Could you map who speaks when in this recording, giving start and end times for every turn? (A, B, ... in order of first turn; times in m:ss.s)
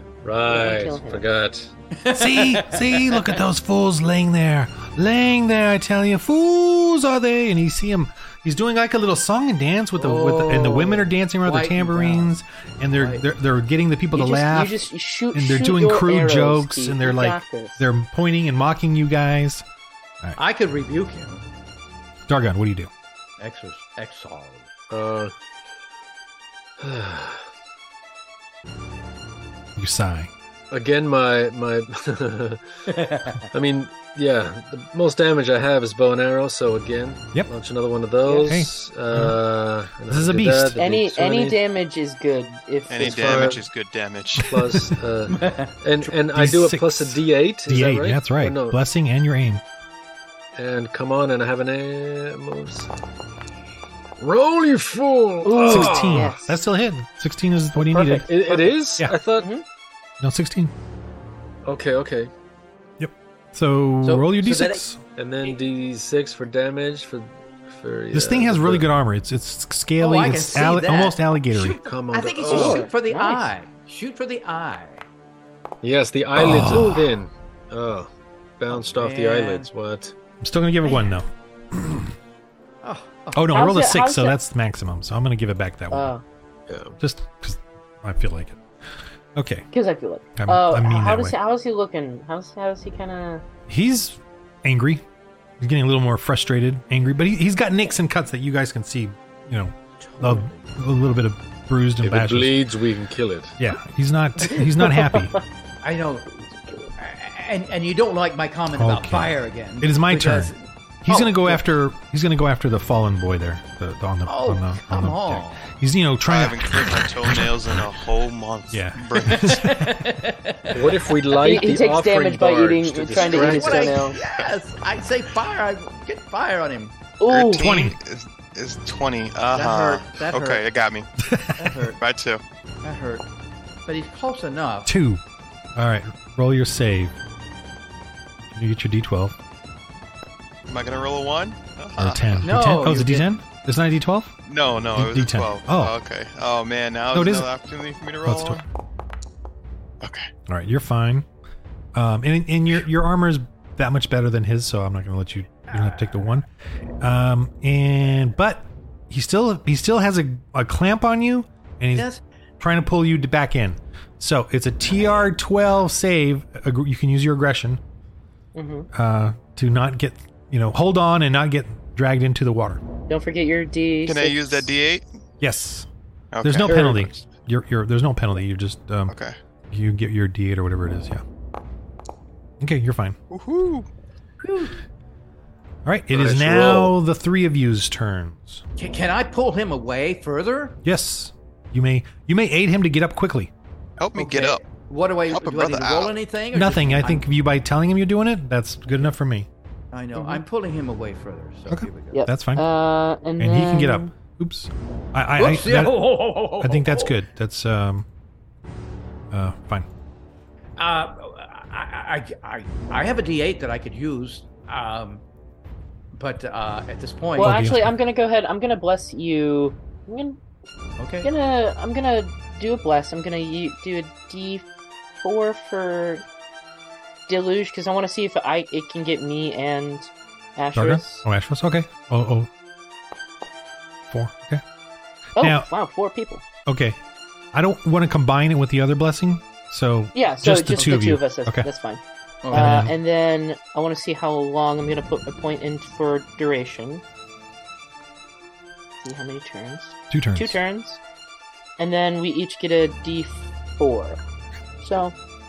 0:00.2-0:01.7 A
0:00.5-0:01.2 B
0:02.0-0:03.4 C
0:02.1-0:19.6 D
0:10.0-0:12.3 C
0:13.0-0:13.3 C
0:14.1-0:17.8 B
0:20.4-0:21.4 C
0:22.3-0:22.9 D
0:23.4-0:24.7 C
0:24.9-0:25.3 A
0:26.8-0:27.5 A
0:29.8-0:30.3 D
0:30.7-0:32.8 A
0:32.9-0:33.5 C
0:33.4-0:41.6 A
0:38.3-0:38.5 B
0:38.4-0:39.4 D
0:40.1-0:40.8 D
0:40.8-0:43.6 B
0:42.9-0:44.5 E
0:43.0-0:43.6 A
0:44.4-0:44.9 D
0:44.4-0:48.8 A
0:45.3-0:45.7 C
0:46.0-0:49.6 D
0:50.6-0:52.9 A
0:54.2-0:56.3 A
0:55.4-0:56.6 B
0:55.6-0:58.3 D
0:57.8-0:58.7 B
0:58.3-0:59.5 A
0:59.3-0:59.6 B
1:00.2-1:00.7 D
1:01.6-1:02.3 A
1:03.0-1:05.0 D
1:04.0-1:04.8 C
1:05.2-1:08.9 A
1:08.1-1:11.8 D
1:10.0-1:15.0 C
1:11.8-1:12.9 A
1:12.5-1:13.5 B
1:15.8-1:20.1 A
1:16.4-1:17.1 D
1:16.7-1:17.0 B
1:18.7-1:19.7 C
1:20.4-1:22.2 D
1:22.8-1:23.4 C
1:23.3-1:26.1 D
1:23.5-1:24.4 B
1:25.9-1:26.2 B
1:26.7-1:27.0 A
1:27.0-1:28.6 D
1:29.4-1:29.7 D
1:29.7-1:33.4 B
1:30.4-1:31.4 D
1:33.7-1:35.0 D
1:35.6-1:42.6 D
1:40.0-1:40.7 C
1:42.0-1:43.6 A
1:43.6-1:45.3 D
1:44.5-1:45.4 B
1:45.8-1:46.4 C
1:47.0-1:51.6 C
1:48.7-1:50.5 D
1:51.0-1:57.8 D
1:54.3-1:55.7 C
1:56.3-1:59.7 E
1:58.7-2:00.0 D
1:59.3-2:00.9 C
2:00.7-2:04.0 A
2:01.4-2:04.2 B
2:03.1-2:07.0 C
2:07.2-2:07.7 B
2:07.3-2:11.1 E
2:07.5-2:08.0 D
2:09.5-2:10.6 C
2:11.3-2:11.7 D
2:11.6-2:12.0 C
2:12.0-2:12.4 E
2:12.8-2:13.3 C
2:13.9-2:14.9 C
2:14.9-2:15.2 D
2:15.8-2:17.2 D
2:18.5-2:19.4 D
2:20.7-2:22.5 E
2:22.0-2:24.3 D
2:22.4-2:23.3 C
2:24.5-2:28.6 E
2:24.9-2:25.9 D
2:27.1-2:27.5 D
2:28.2-2:28.6 D
2:30.0-2:30.3 E
2:30.5-2:31.3 D
2:31.9-2:36.5 D
2:35.8-2:36.1 C
2:37.0-2:42.1 D
2:41.9-2:42.2 C
2:42.6-2:47.8 D
2:48.6-2:48.9 B
2:48.9-2:52.8 D
2:53.1-2:54.7 B
2:54.0-2:55.0 E
2:55.4-2:55.9 D
2:56.3-2:57.2 E
2:56.4-2:59.1 D
2:56.7-2:57.0 B
2:59.1-2:59.4 E
2:59.7-3:01.2 D
3:02.6-3:03.2 D
3:03.3-3:03.9 E
3:04.4-3:04.8 C
3:05.8-3:08.6 D
3:06.1-3:07.0 A
3:08.8-3:10.8 C
3:10.8-3:13.5 D
3:14.0-3:14.6 E
3:14.2-3:17.2 C
3:15.3-3:16.1 E
3:16.5-3:19.5 D
3:19.9-3:22.2 C
3:20.2-3:20.4 B
3:21.7-3:22.6 D
3:22.1-3:24.1 B
3:23.4-3:28.1 D
3:25.4-3:27.2 C
3:29.3-3:29.9 D
3:30.8-3:35.2 C
3:36.2-3:37.6 C
3:37.4-3:40.4 B
3:37.4-3:37.9 D
3:41.0-3:41.3 C
3:41.2-3:46.2 B
3:47.3-3:51.2 B
3:50.8-3:52.5 D
3:54.1-3:54.6 D
3:55.4-3:56.4 B
3:55.4-3:55.7 D
3:56.6-3:57.0 D
3:57.5-4:01.7 D
4:00.1-4:07.0 B
4:02.4-4:02.9 C
4:02.5-4:02.9 D
4:09.0-4:11.0 B
4:10.1-4:10.6 D
4:11.8-4:14.2 B
4:14.8-4:15.2 B